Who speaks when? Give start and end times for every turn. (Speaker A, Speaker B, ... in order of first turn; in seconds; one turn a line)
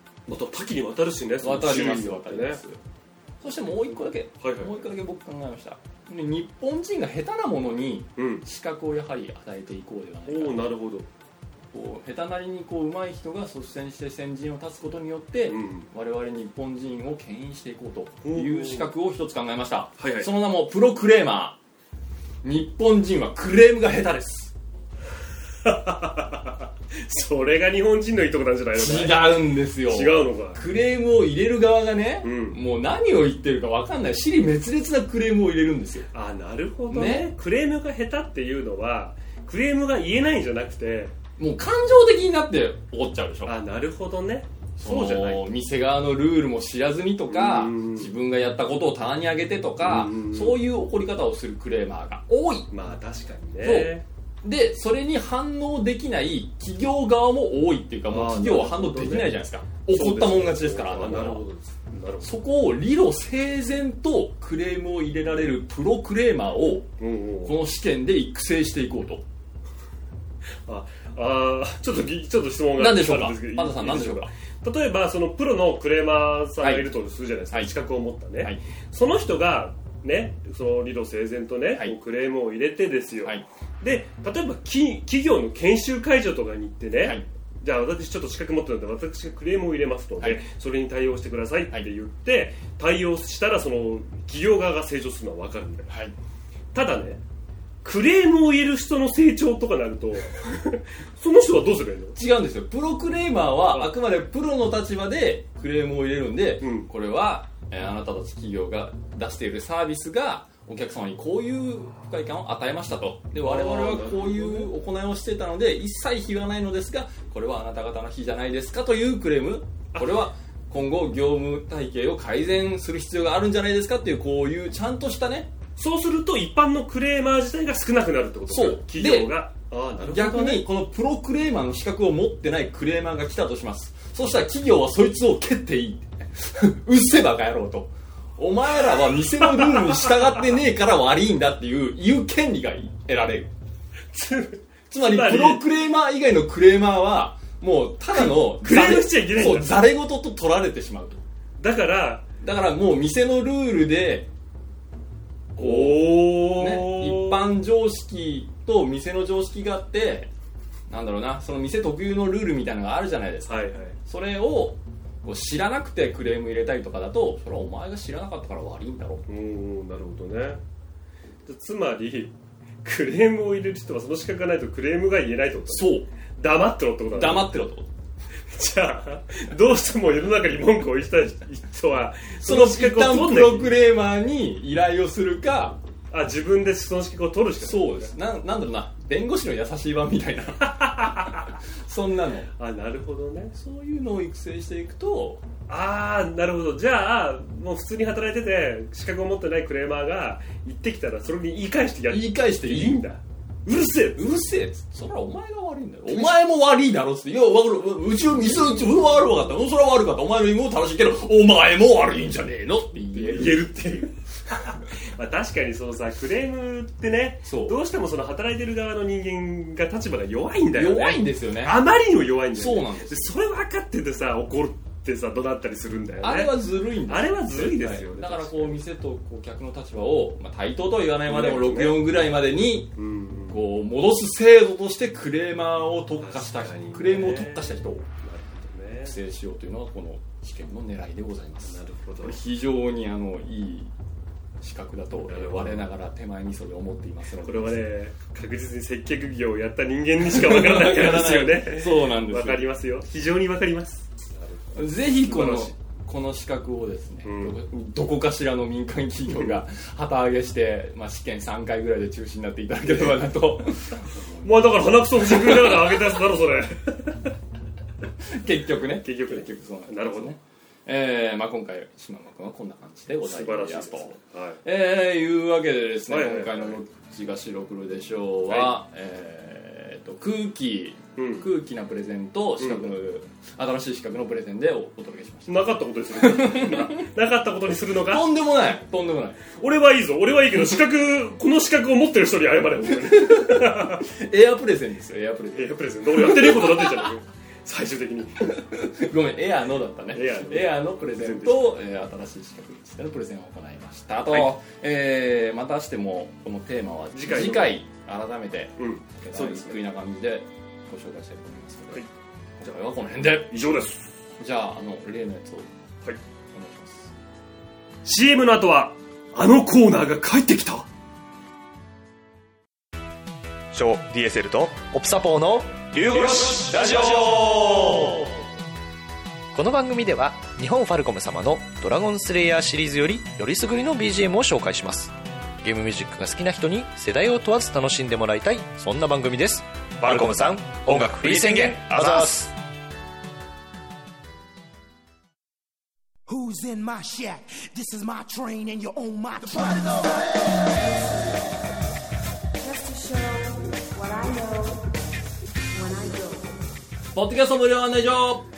Speaker A: 0.3-2.6
Speaker B: 1.4-2.8
Speaker B: 3.4-10.7
Speaker A: 4.4-4.8
Speaker A: 8.2-8.4
Speaker A: 10.2-11.1
Speaker B: 11.7-21.6
Speaker A: 15.5-15.9
Speaker A: 18.2-18.9
Speaker A: 20.0-20.3
Speaker B: 22.4-24.5
Speaker A: 25.6-30.6
Speaker B: 28.7-36.1
Speaker A: 32.2-32.6
Speaker A: 36.1-41.1
Speaker B: 36.9-37.3
Speaker B: 41.4-43.5
Speaker A: 43.4-45.5
Speaker B: 44.8-52.7
Speaker A: 47.3-48.1
Speaker A: 49.8-50.6
Speaker A: 52.7-54.0
Speaker B: 53.6-61.4
Speaker A: 58.1-62.3
Speaker B: 62.2-66.9
Speaker A: 67.0-67.6
Speaker B: 67.4-69.2
Speaker A: 70.7-95.9
Speaker B: 72.8-74.3
Speaker B: 76.6-76.9
Speaker B: 77.5-77.7
Speaker B: 87.0-87.2
Speaker B: 95.9-96.1
Speaker A: 96.7-97.2
Speaker A: 97.8-102.2
Speaker B: 102.1-125.5
Speaker A: 103.7-103.9
Speaker A: 106.6-106.9
Speaker A: 113.4-114.7
Speaker A: 119.9-120.2
Speaker A: 125.8-130.7
Speaker B: 128.5-129.3
Speaker B: 130.0-143.5
Speaker A: 139.2-140.3
Speaker A: 144.1-145.6
Speaker B: 144.9-151.2
Speaker A: 148.1-149.8
Speaker A: 151.6-152.3
Speaker B: 152.4-154.3
Speaker A: 155.6-157.5
Speaker B: 155.6-160.3
Speaker B: 160.9-169.2
Speaker A: 163.5-164.0
Speaker A: 169.3-170.6
Speaker A: 171.5-177.5
Speaker B: 175.7-176.1
Speaker B: 177.1-177.9
Speaker A: 178.5-183.7
Speaker B: 182.4-185.8
Speaker A: 186.1-188.1
Speaker B: 187.6-192.5
Speaker A: 190.7-191.5
Speaker A: 192.6-193.6
Speaker B: 193.5-195.4
Speaker A: 195.7-204.2
Speaker B: 202.1-203.0
Speaker B: 204.1-214.1
Speaker A: 208.4-209.2
Speaker A: 213.1-214.2
Speaker A: 215.0-226.5
Speaker B: 217.4-217.8
Speaker B: 220.7-221.8
Speaker B: 222.5-223.3
Speaker B: 226.2-238.1
Speaker A: 227.1-228.8
Speaker A: 231.3-232.0
Speaker A: 232.9-233.6
Speaker A: 236.2-239.2
Speaker B: 239.0-243.9
Speaker A: 241.6-242.4
Speaker B: 244.6-247.8
Speaker A: 245.3-245.9
Speaker A: 247.4-255.7
Speaker B: 250.2-252.6
Speaker B: 254.7-266.0
Speaker A: 257.2-257.6
Speaker A: 259.3-259.6
Speaker A: 262.9-263.2
Speaker A: 264.4-267.2
Speaker B: 268.2-287.0
Speaker A: 269.0-270.3
Speaker A: 273.2-274.6
Speaker A: 276.1-276.8
Speaker A: 278.5-278.8
Speaker A: 281.1-281.5
Speaker A: 282.6-282.9
Speaker A: 285.5-288.3
Speaker B: 288.0-289.5
Speaker A: 289.5-294.0
Speaker B: 292.8-297.1
Speaker A: 295.5-298.6
Speaker B: 298.4-312.1
Speaker A: 300.1-301.8
Speaker A: 304.3-304.5
Speaker A: 307.1-307.8
Speaker A: 308.8-309.8
Speaker B: 312.6-313.6
Speaker A: 313.4-314.1
Speaker B: 314.4-315.7
Speaker B: 316.5-317.1
Speaker A: 318.0-320.9
Speaker C: 323.7-328.2
Speaker C: 329.5-342.5
Speaker D: 346.3-350.4
Speaker E: 351.0-351.3
Speaker E: 352.6-354.9
Speaker E: 355.7-356.6
Speaker B: 357.1-358.5